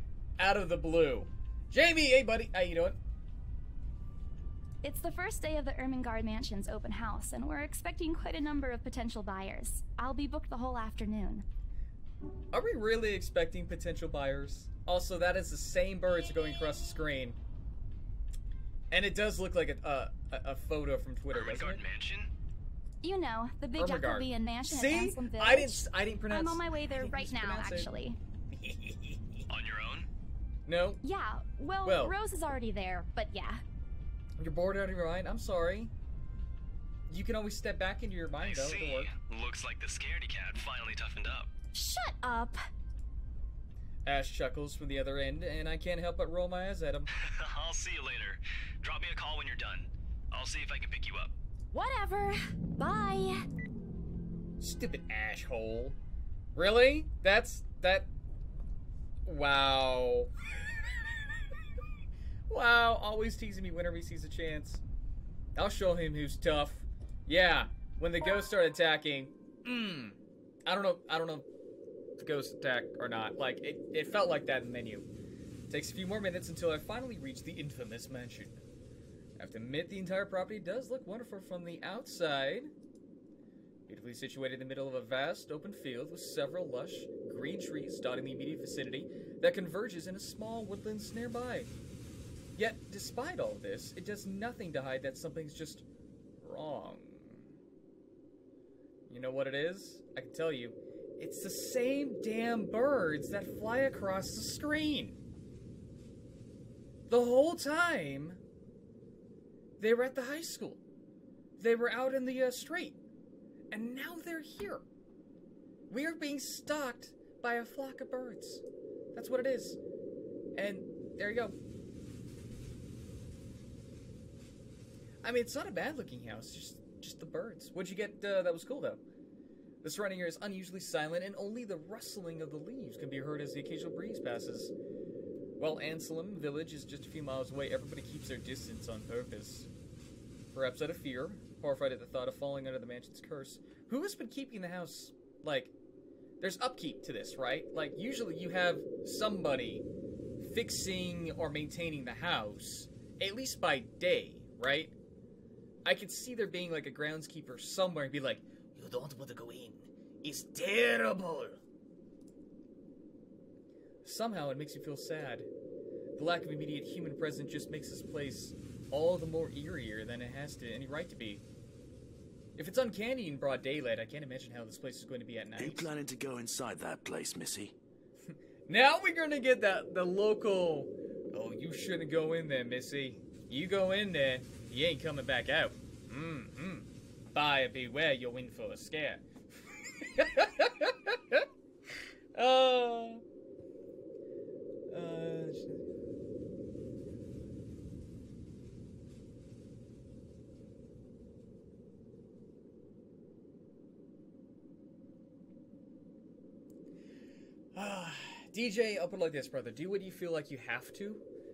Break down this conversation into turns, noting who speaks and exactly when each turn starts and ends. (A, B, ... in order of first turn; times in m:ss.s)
0:00.4-0:03.0 A
0:04.8-0:11.4 B
0:12.5-0:17.4 A
0:18.9-0:21.8 A
0:21.3-0:22.3 C
0:23.0-0:28.2 B
0:23.8-0:27.9 A
0:28.5-0:29.4 A
0:29.5-0:30.1 C
0:30.6-0:31.0 A
0:31.0-0:33.6 B
0:31.8-0:32.1 A
0:34.4-0:35.9 A
0:37.1-0:39.1 A
0:38.4-0:41.5 C
0:41.7-0:42.6 B
0:44.0-0:47.1 A
0:47.2-0:51.3 C
0:51.7-0:53.4 B
0:54.6-0:56.0 A
0:56.5-0:58.1 A
0:59.2-1:00.3 A
1:02.5-1:04.8 A
1:05.5-1:11.5 A
1:12.2-1:15.1 A
1:15.7-1:18.6 A
1:19.4-1:22.7 A
1:23.9-1:31.7 A
1:32.6-1:35.8 A
1:36.4-1:37.4 A
1:39.1-1:45.2 A
1:47.1-1:48.4 A
1:49.8-1:50.8 A
1:51.6-1:53.0 A
1:53.7-1:54.8 A
1:55.9-1:58.6 A
1:59.1-1:59.8 A
2:00.5-2:01.5 A
2:05.2-2:09.0 A
2:09.8-2:14.7 A
2:15.6-2:19.7 A
2:20.5-2:25.7 A
2:26.4-2:29.8 A
2:30.4-2:34.9 A
2:35.8-2:41.6 A
2:44.0-2:45.5 A
2:46.2-2:51.4 A
2:52.6-2:55.9 A
2:55.6-2:57.7 D
2:58.3-3:09.3 A
3:10.0-3:11.4 A
3:12.3-3:13.2 A
3:14.9-3:15.8 A
3:27.7-3:31.2 A